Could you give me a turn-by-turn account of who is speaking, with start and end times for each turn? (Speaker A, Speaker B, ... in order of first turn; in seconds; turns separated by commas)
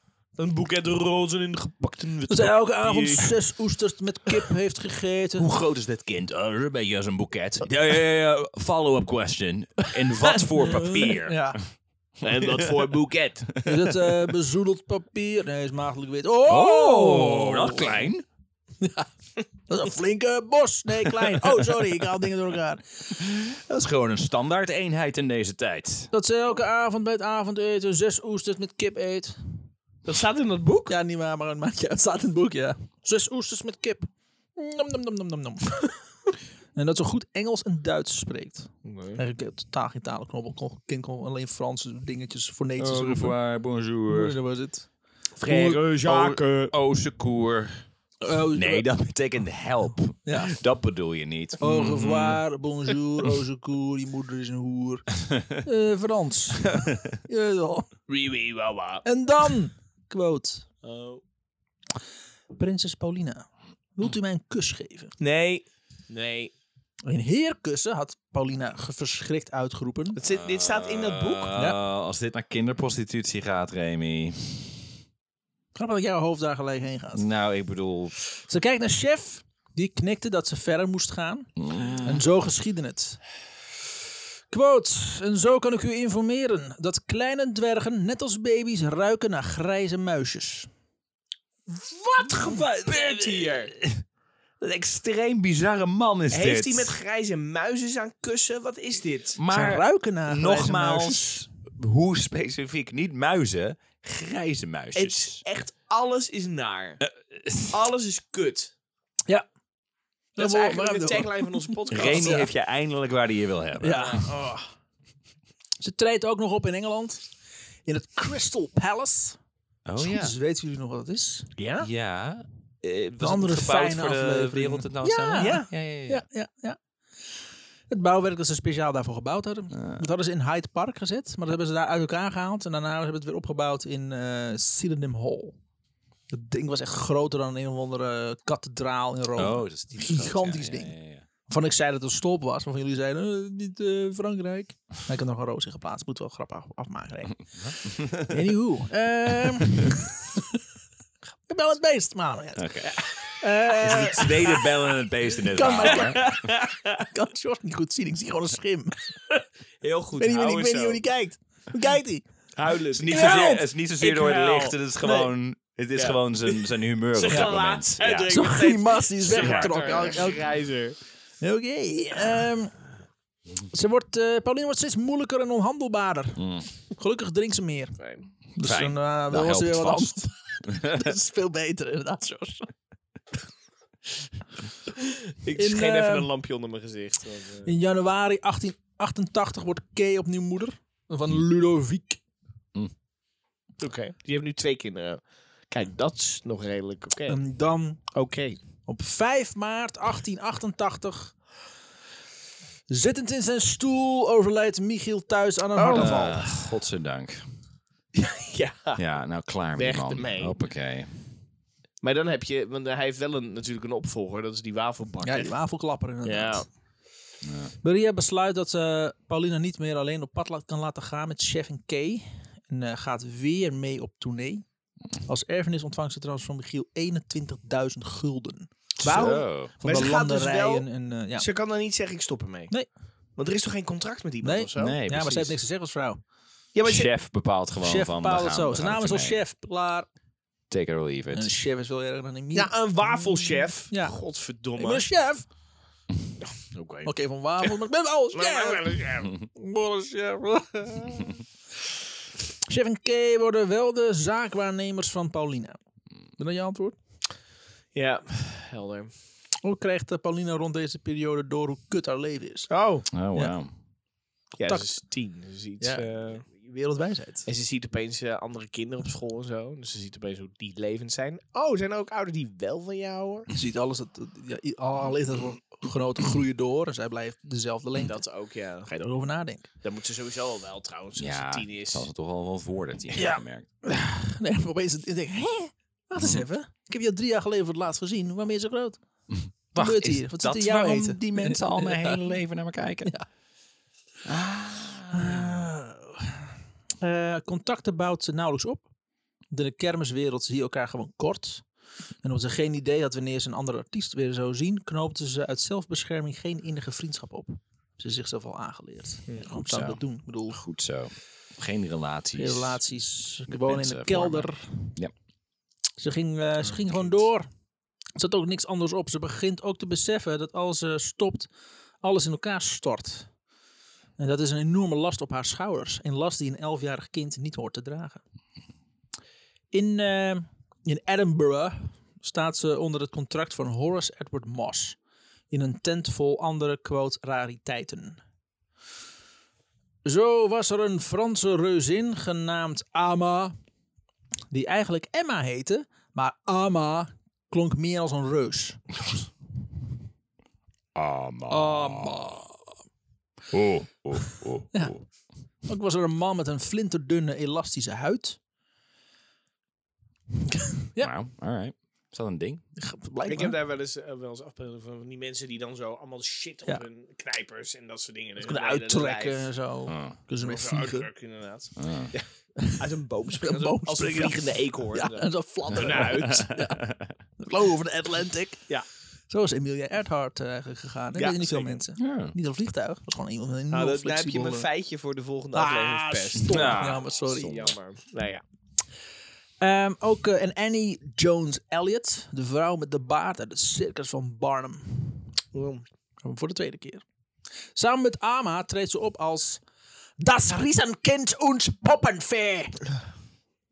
Speaker A: 0.4-3.4, Speaker B: 2.3-5.5, Speaker C: 5.4-11.6, Speaker B: 10.2-11.6, Speaker A: 12.2-13.6, Speaker C: 12.4-12.8, Speaker B: 13.6-18.1, Speaker C: 16.5-18.2, Speaker B: 18.8-19.1, Speaker B: 19.7-22.8, Speaker C: 23.2-26.1, Speaker B: 26.1-29.6, Speaker A: 30.1-30.9, Speaker B: 30.9-36.0, Speaker B: 36.8-43.4, Speaker A: 38.9-39.2, Speaker C: 42.8-44.4, Speaker B: 44.1-44.9, Speaker A: 45.4-46.7, Speaker C: 45.5-47.9, Speaker B: 48.2-48.9, Speaker C: 48.5-52.4, Speaker B: 50.2-50.6, Speaker B: 51.6-57.9, Speaker A: 58.1-59.0, Speaker B: 59.0-60.7, Speaker A: 60.8-61.2, Speaker B: 62.5-65.2, Speaker A: 65.2-66.5, Speaker B: 67.1-70.2, Speaker A: 70.2-71.6, Speaker C: 70.3-74.9, Speaker B: 75.8-77.3, Speaker C: 77.1-78.1, Speaker B: 78.4-83.2, Speaker C: 81.6-82.2, Speaker B: 84.5-90.7, Speaker B: 92.1-92.6, Speaker A: 92.2-93.7, Speaker C: 92.4-94.0, Speaker C: 94.6-96.9, Speaker A: 96.3-99.4, Speaker C: 99.4-105.4, Speaker B: 99.5-101.5, Speaker A: 105.0-107.0, Speaker C: 107.3-107.7, Speaker A: 107.7-108.7, Speaker B: 110.4-112.5, Speaker A: 110.4-112.5, Speaker C: 111.9-114.3, Speaker B: 113.8-114.7, Speaker B: 115.8-117.2, Speaker B: 117.9-119.4, Speaker C: 119.8-120.3, Speaker B: 120.0-121.5, Speaker A: 121.6-121.9, Speaker C: 121.8-126.2, Speaker B: 123.2-126.8, Speaker A: 125.4-125.7, Speaker B: 127.9-135.6, Speaker C: 129.7-130.0, Speaker B: 136.3-150.6, Speaker C: 139.3-141.3, Speaker C: 147.6-148.4, Speaker C: 149.7-150.0, Speaker B: 151.5-154.7, Speaker C: 152.6-153.0, Speaker C: 153.8-156.3, Speaker B: 155.5-156.5, Speaker A: 155.9-157.0, Speaker B: 157.1-159.0, Speaker A: 159.8-161.0, Speaker B: 160.2-162.2, Speaker A: 162.6-165.3, Speaker C: 162.9-168.3, Speaker B: 163.1-163.7, Speaker A: 166.0-166.6, Speaker A: 167.1-171.0, Speaker B: 168.3-170.4, Speaker C: 169.3-169.8, Speaker B: 171.4-172.8, Speaker B: 173.7-176.4, Speaker C: 176.4-176.7, Speaker B: 177.0-178.0, Speaker A: 178.0-178.3, Speaker B: 178.6-182.7, Speaker C: 178.6-181.1, Speaker A: 185.4-187.7, Speaker B: 185.6-186.3, Speaker B: 187.7-192.2, Speaker A: 193.8-197.4, Speaker B: 197.3-198.0, Speaker A: 198.1-198.6, Speaker B: 198.9-201.4, Speaker B: 202.9-206.5, Speaker A: 205.8-206.5, Speaker C: 205.9-207.4, Speaker A: 208.2-209.0, Speaker C: 209.0-211.1, Speaker A: 209.8-210.6, Speaker A: 212.0-215.5, Speaker B: 215.2-216.7, Speaker A: 216.2-216.7, Speaker C: 217.4-217.7, Speaker B: 217.8-224.7, Speaker B: 225.2-228.7, Speaker C: 229.0-229.7, Speaker A: 229.0-230.9, Speaker B: 229.8-231.5, Speaker A: 231.4-232.7, Speaker A: 233.4-235.0, Speaker B: 234.4-236.2, Speaker C: 234.8-235.6, Speaker A: 236.8-237.1, Speaker C: 236.8-239.4, Speaker B: 237.8-240.1, Speaker C: 240.7-241.5, Speaker B: 241.3-244.2, Speaker A: 242.6-245.1, Speaker B: 244.8-245.5, Speaker A: 246.4-247.7, Speaker B: 247.1-248.9, Speaker A: 248.3-251.3, Speaker B: 249.7-251.0, Speaker B: 252.7-255.8, Speaker B: 256.4-257.0, Speaker A: 257.9-259.1, Speaker B: 259.6-262.7, Speaker A: 262.7-263.1, Speaker C: 263.1-263.7, Speaker A: 264.6-266.5, Speaker B: 264.6-264.9, Speaker B: 265.8-267.5, Speaker A: 267.5-273.5, Speaker B: 273.5-278.2, Speaker A: 278.0-278.9, Speaker B: 278.9-279.7, Speaker A: 279.8-282.1, Speaker C: 281.2-283.7, Speaker B: 283.1-289.0, Speaker C: 286.2-286.4, Speaker C: 289.7-293.1, Speaker B: 289.7-292.2, Speaker C: 294.2-295.6, Speaker B: 295.1-296.4, Speaker B: 297.0-298.9, Speaker B: 299.5-301.7, Speaker B: 302.2-310.6, Speaker C: 309.6-312.8, Speaker B: 312.4-314.9, Speaker C: 313.5-315.1, Speaker B: 316.0-317.5, Speaker A: 316.7-317.1, Speaker B: 318.2-321.5, Speaker B: 322.0-323.3, Speaker B: 324.2-328.2, Speaker B: 329.7-335.0, Speaker B: 335.5-338.2, Speaker B: 340.1-343.6, Speaker B: 344.5-348.8, Speaker C: 350.9-352.4, Speaker B: 351.5-352.5, Speaker C: 353.5-355.1, Speaker B: 354.7-355.0, Speaker B: 355.7-358.4, Speaker B: 360.5-361.1, Speaker C: 361.0-362.6, Speaker B: 362.8-363.6, Speaker A: 363.3-369.5, Speaker B: 368.4-371.1, Speaker C: 369.9-370.2, Speaker A: 370.4-376.5, Speaker C: 371.8-372.1, Speaker B: 373.4-376.8, Speaker C: 375.8-377.1, Speaker B: 377.4-378.6, Speaker B: 379.3-384.7, Speaker A: 381.1-381.8, Speaker C: 382.0-382.4, Speaker A: 383.7-388.4, Speaker B: 385.5-387.7, Speaker C: 386.4-387.8, Speaker B: 389.6-395.3, Speaker A: 395.5-395.9, Speaker B: 396.2-397.0, Speaker B: 397.8-399.6, Speaker B: 400.2-402.8